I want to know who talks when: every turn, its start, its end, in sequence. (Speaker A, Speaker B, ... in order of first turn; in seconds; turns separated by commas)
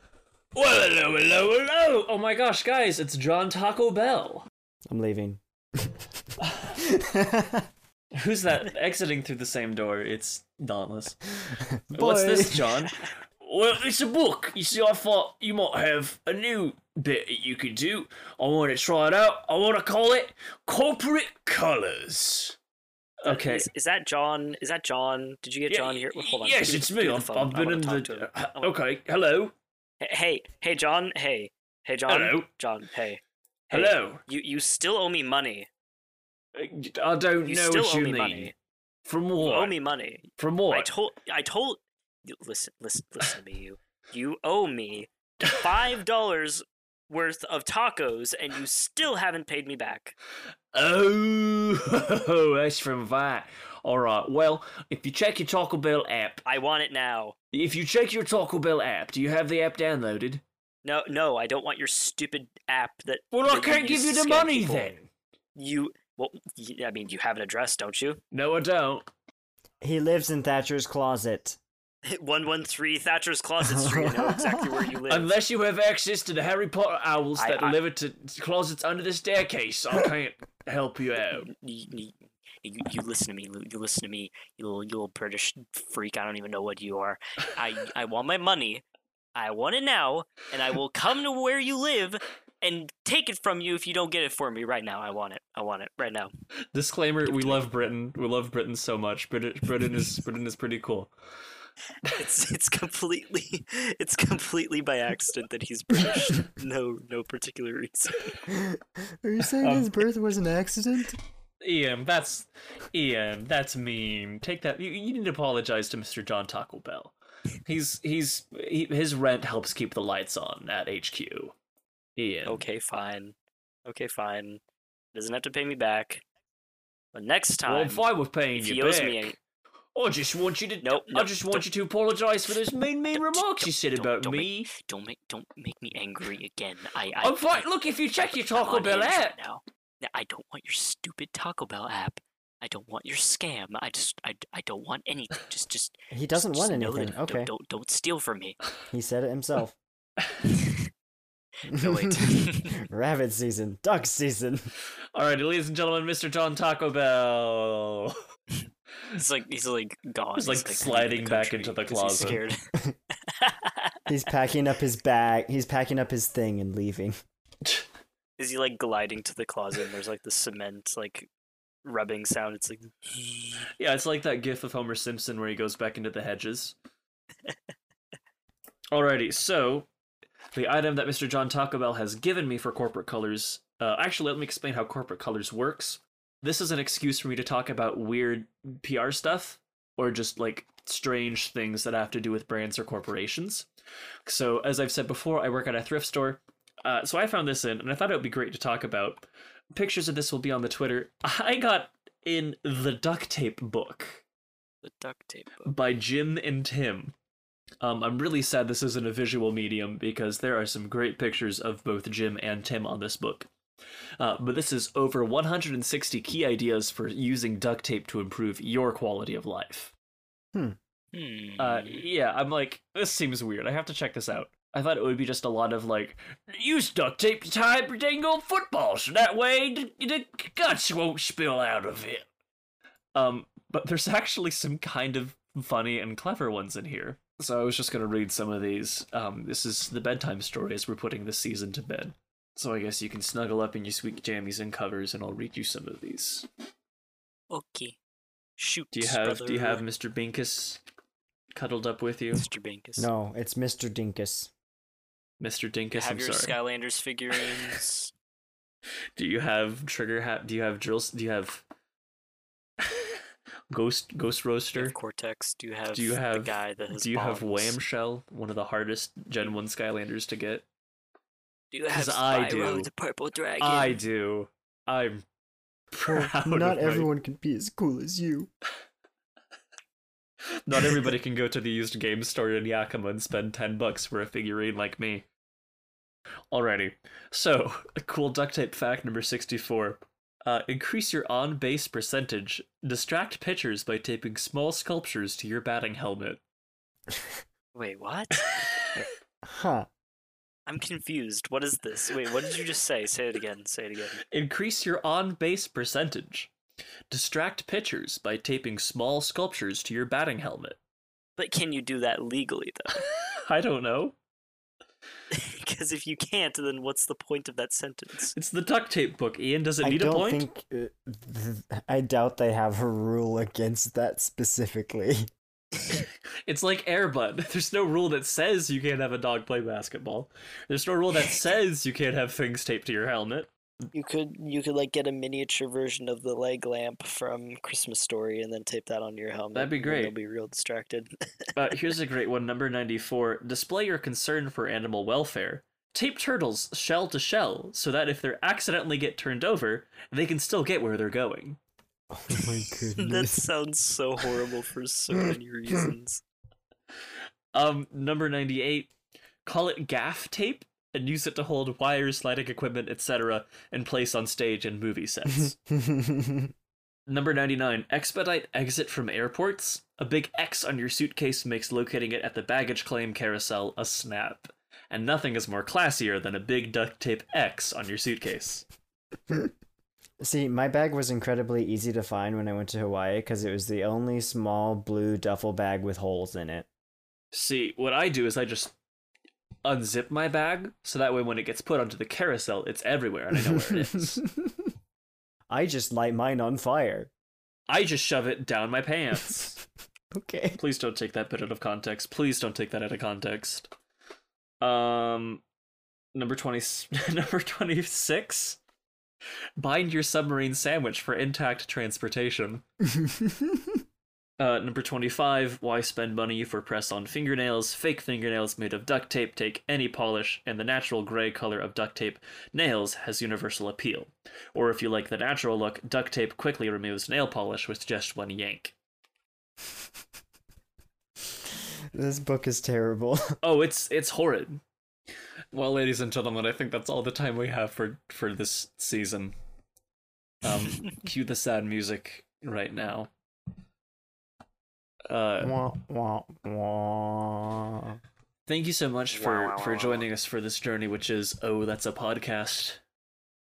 Speaker A: 0.5-4.5, Speaker B: 4.9-6.0, Speaker A: 6.4-6.7, Speaker B: 6.8-7.7, Speaker A: 8.1-22.6, Speaker B: 11.5-12.8, Speaker A: 23.2-23.7, Speaker C: 23.2-28.7, Speaker A: 25.7-29.5, Speaker C: 30.0-35.7, Speaker A: 32.1-32.5, Speaker A: 33.7-34.2, Speaker A: 36.5-38.5, Speaker C: 37.4-38.5, Speaker A: 39.0-39.8, Speaker C: 39.4-50.1, Speaker A: 40.4-40.9, Speaker A: 50.7-56.4, Speaker C: 56.4-57.4, Speaker A: 57.5-60.4, Speaker C: 60.8-65.0, Speaker A: 63.3-65.1, Speaker C: 65.5-68.2, Speaker A: 68.3-69.1, Speaker B: 69.8-71.6, Speaker C: 72.0-75.3, Speaker B: 73.6-74.7, Speaker A: 75.1-81.5, Speaker C: 77.3-77.8, Speaker C: 81.4-88.8, Speaker C: 89.3-96.3, Speaker A: 96.7-101.1, Speaker C: 102.0-108.3, Speaker B: 108.5-111.2, Speaker A: 109.6-109.9, Speaker A: 111.6-121.5, Speaker A: 122.2-122.6, Speaker C: 122.5-123.3, Speaker C: 123.8-124.6, Speaker C: 125.1-126.2, Speaker C: 127.1-128.0, Speaker A: 127.7-129.4, Speaker C: 128.5-129.3, Speaker A: 129.9-134.7, Speaker C: 130.8-131.7, Speaker C: 133.1-137.7, Speaker A: 137.2-139.3, Speaker C: 138.5-148.6, Speaker B: 146.1-147.5, Speaker B: 148.9-149.8, Speaker C: 151.7-152.7, Speaker B: 151.7-154.7, Speaker A: 155.1-158.2, Speaker C: 159.1-162.6, Speaker A: 160.3-162.4, Speaker C: 163.3-164.0, Speaker B: 164.1-167.2, Speaker C: 168.4-171.3, Speaker C: 171.8-173.6, Speaker A: 173.8-176.8, Speaker A: 178.9-179.9, Speaker A: 180.5-193.7, Speaker A: 194.2-204.2, Speaker C: 204.8-205.7, Speaker A: 205.6-207.1, Speaker A: 207.8-213.5, Speaker A: 214.2-219.9, Speaker C: 221.1-222.0, Speaker A: 221.6-232.3, Speaker A: 233.1-246.5, Speaker C: 247.5-248.0, Speaker C: 248.6-249.8, Speaker A: 248.9-250.8, Speaker A: 251.5-252.4, Speaker C: 252.3-253.1, Speaker B: 253.0-254.5, Speaker A: 255.4-256.6, Speaker C: 255.9-258.1, Speaker A: 257.4-257.8, Speaker A: 259.1-261.6, Speaker A: 262.8-263.1, Speaker A: 263.7-264.9, Speaker C: 264.7-267.8, Speaker A: 265.9-270.6, Speaker C: 271.7-274.0, Speaker A: 271.9-272.9, Speaker A: 273.6-275.2, Speaker A: 275.9-277.1, Speaker B: 276.1-278.5, Speaker A: 280.5-285.2, Speaker A: 286.5-296.4, Speaker C: 297.7-298.5, Speaker B: 299.0-299.9, Speaker C: 300.7-304.2, Speaker A: 304.3-306.5, Speaker A: 307.1-310.8, Speaker C: 311.4-313.0, Speaker A: 313.0-314.1, Speaker C: 315.3-318.3, Speaker A: 318.3-320.4, Speaker B: 319.8-325.3, Speaker A: 326.4-333.5, Speaker C: 333.9-341.1, Speaker A: 339.5-340.1, Speaker A: 341.6-351.6, Speaker B: 352.1-353.5, Speaker C: 352.9-356.2, Speaker A: 357.5-358.9, Speaker A: 359.4-365.6, Speaker B: 365.7-366.5, Speaker A: 367.1-378.6, Speaker B: 380.2-386.7, Speaker A: 387.3-388.8, Speaker A: 389.6-394.2, Speaker B: 393.3-394.7, Speaker B: 395.5-397.1, Speaker A: 397.7-399.6, Speaker B: 400.1-400.6, Speaker A: 400.6-403.7, Speaker A: 404.6-405.4, Speaker A: 406.1-408.6, Speaker A: 409.6-412.6, Speaker B: 412.9-413.7, Speaker A: 414.4-428.7, Speaker B: 431.9-433.4, Speaker A: 433.4-434.6, Speaker A: 435.5-439.3, Speaker A: 440.4-443.1, Speaker A: 445.1-445.6, Speaker B: 445.4-448.0, Speaker A: 448.5-452.8, Speaker C: 449.1-450.1